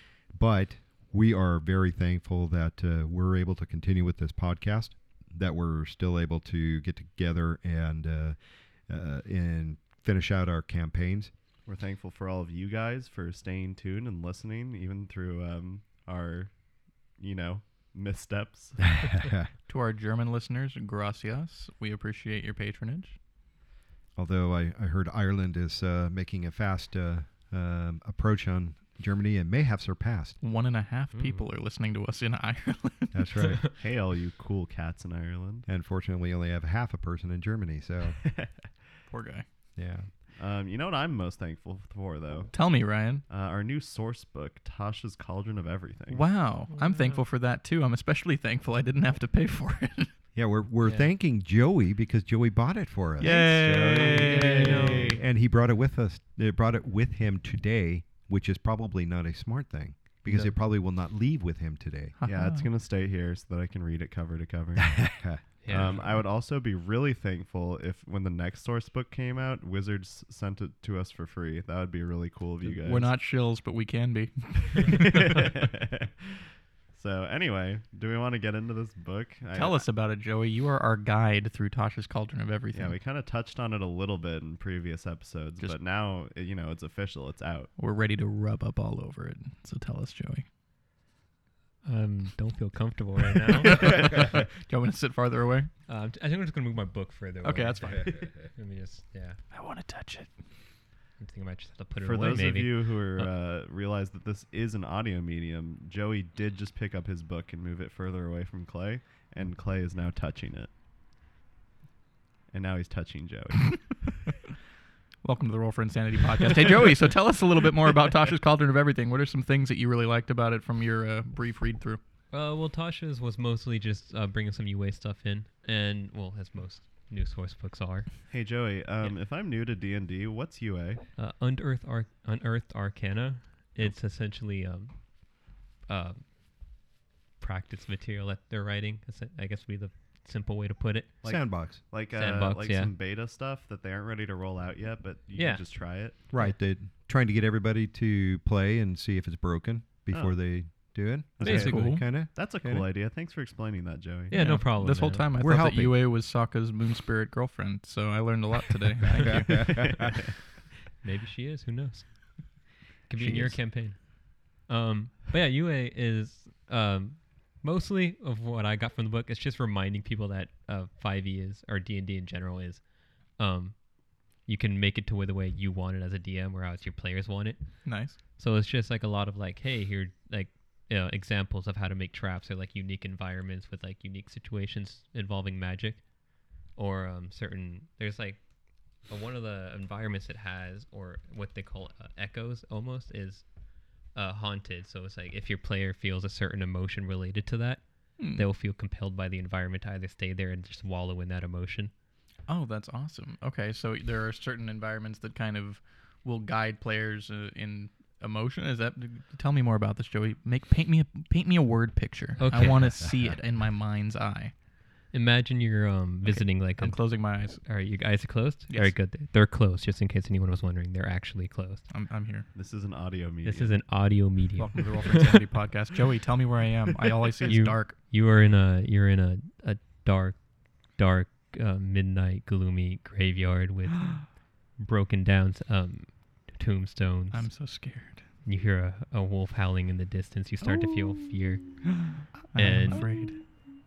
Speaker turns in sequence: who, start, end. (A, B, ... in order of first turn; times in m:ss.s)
0:00.3-0:08.4 A
0:08.9-0:11.3 A
0:11.7-0:16.5 B
0:17.2-0:18.9 B
0:19.0-0:19.5 A
0:19.7-0:23.2 C
0:24.2-0:30.4 A
0:30.4-0:33.6 C
0:31.2-0:31.4 D
0:33.1-0:33.6 A
0:33.8-0:35.7 B
0:35.7-0:38.2 A
0:38.2-0:38.7 B
0:39.1-0:39.5 C
0:39.8-0:40.1 A
0:40.4-0:42.5 B
0:42.5-0:43.2 C
0:43.3-0:46.2 B
0:46.1-0:50.1 C
0:46.8-0:47.2 D
0:50.4-1:02.2 A
0:53.2-0:55.1 C
0:53.2-0:55.2 B
0:54.2-0:55.2 D
1:02.2-1:02.7 C
1:02.2-1:05.1 B
1:04.8-1:05.4 A
1:05.6-1:06.2 D
1:05.7-1:13.1 B
1:12.8-1:15.4 C
1:14.8-1:16.3 B
1:16.9-1:19.8 B
1:19.5-1:23.0 C
1:22.7-1:27.7 B
1:27.8-1:30.5 C
1:31.8-1:34.4 D
1:33.6-1:35.7 C
1:35.9-1:39.4 D
1:37.4-1:38.3 C
1:39.5-1:40.3 C
1:41.2-1:43.3 D
1:42.0-1:50.7 B
1:52.5-1:53.8 B
1:55.2-2:02.0 C
2:02.3-2:08.2 D
2:08.3-2:11.0 B
2:11.2-2:15.1 D
2:15.9-2:16.2 D
2:17.4-2:21.2 D
2:21.2-2:26.2 B
2:21.2-2:21.8 A
2:22.1-2:22.9 D
2:25.4-2:25.6 D
2:26.3-2:32.9 A
2:30.1-2:30.4 B
2:31.4-2:34.4 B
2:31.4-2:32.0 D
2:31.7-2:32.0 C
2:34.3-2:35.8 D
2:34.3-2:40.1 C
2:35.4-2:36.0 A
2:39.3-2:39.8 A
2:39.6-2:40.3 B
2:41.0-2:52.8 D
2:43.2-2:43.6 C
2:53.4-2:53.8 D
2:54.4-2:57.8 D
2:57.8-2:58.2 C
2:58.4-3:06.0 D
3:06.8-3:08.4 D
3:09.1-3:13.5 D
3:14.1-3:21.9 D
3:18.2-3:18.4 C
3:22.5-3:34.5 C
3:32.4-3:33.1 D
3:35.1-3:41.9 D
3:36.3-3:37.6 C
3:41.9-3:42.5 C
3:42.5-3:43.8 B
3:43.4-3:45.4 D
3:44.6-3:48.0 C
3:47.5-3:50.4 D
3:51.0-3:57.5 D
3:57.3-3:58.3 C
3:58.4-4:03.3 D
4:00.6-4:01.0 C
4:02.0-4:03.5 C